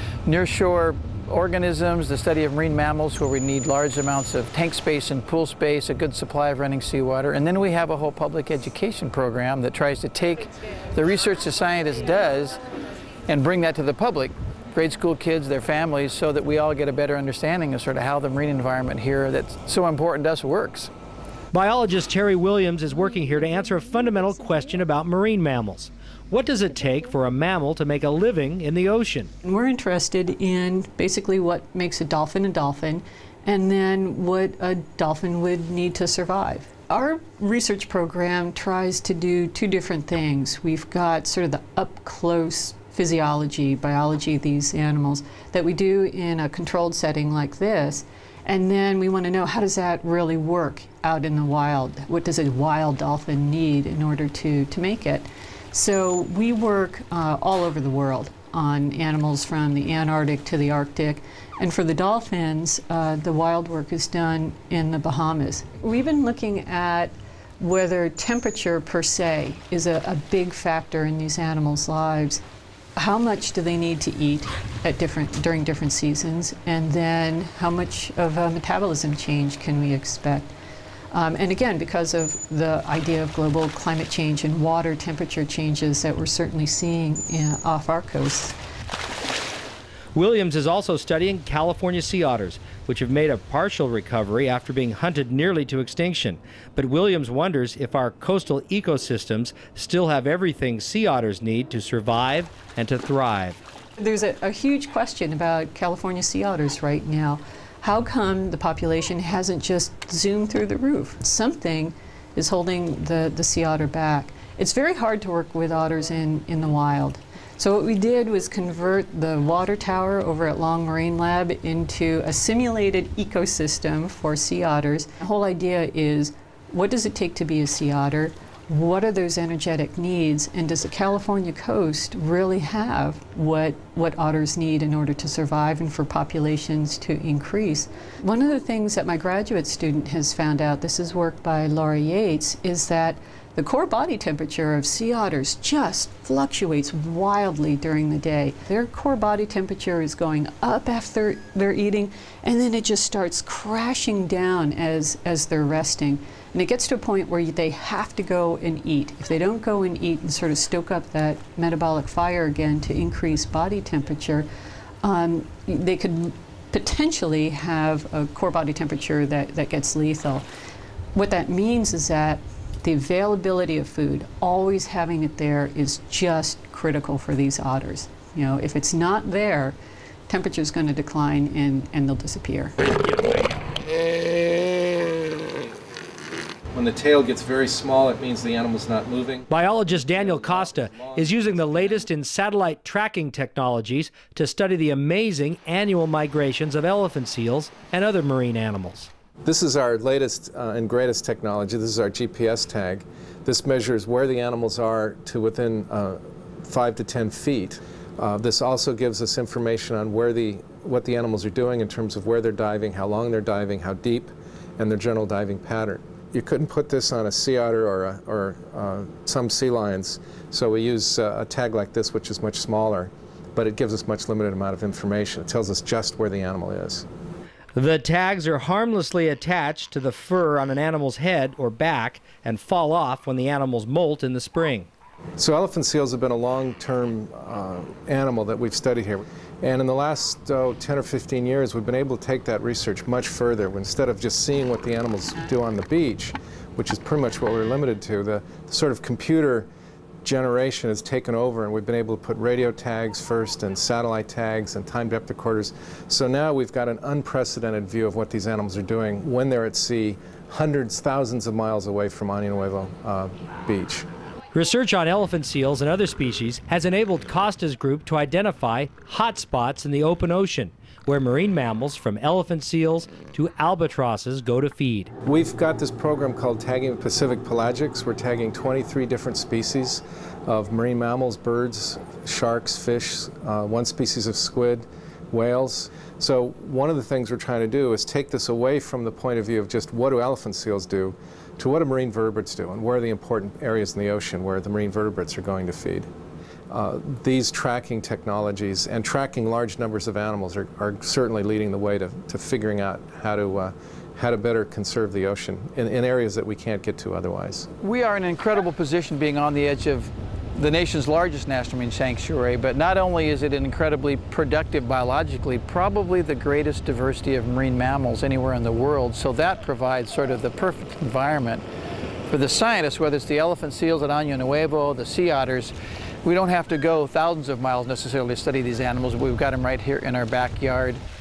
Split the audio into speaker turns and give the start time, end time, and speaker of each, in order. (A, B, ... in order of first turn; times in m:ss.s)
0:00.2-0:12.6 A
0:13.3-0:20.9 A
0:21.5-0:29.3 B
0:29.4-1:12.4 C
1:13.0-1:20.5 C
1:21.1-1:28.6 C
1:30.2-1:43.6 B
1:44.0-2:44.5 C
2:45.0-2:50.5 C
2:51.1-2:59.8 C
3:00.3-3:02.8 C
3:06.7-3:12.1 D
3:09.5-3:19.1 B
3:19.4-3:47.1 D
3:47.8-3:54.9 B
3:55.4-4:09.7 D
4:10.2-4:24.1 D
4:24.5-4:35.1 B
4:35.3-4:56.1 D
4:56.7-5:07.7 D
5:07.8-5:21.6 A
5:22.3-5:31.0 A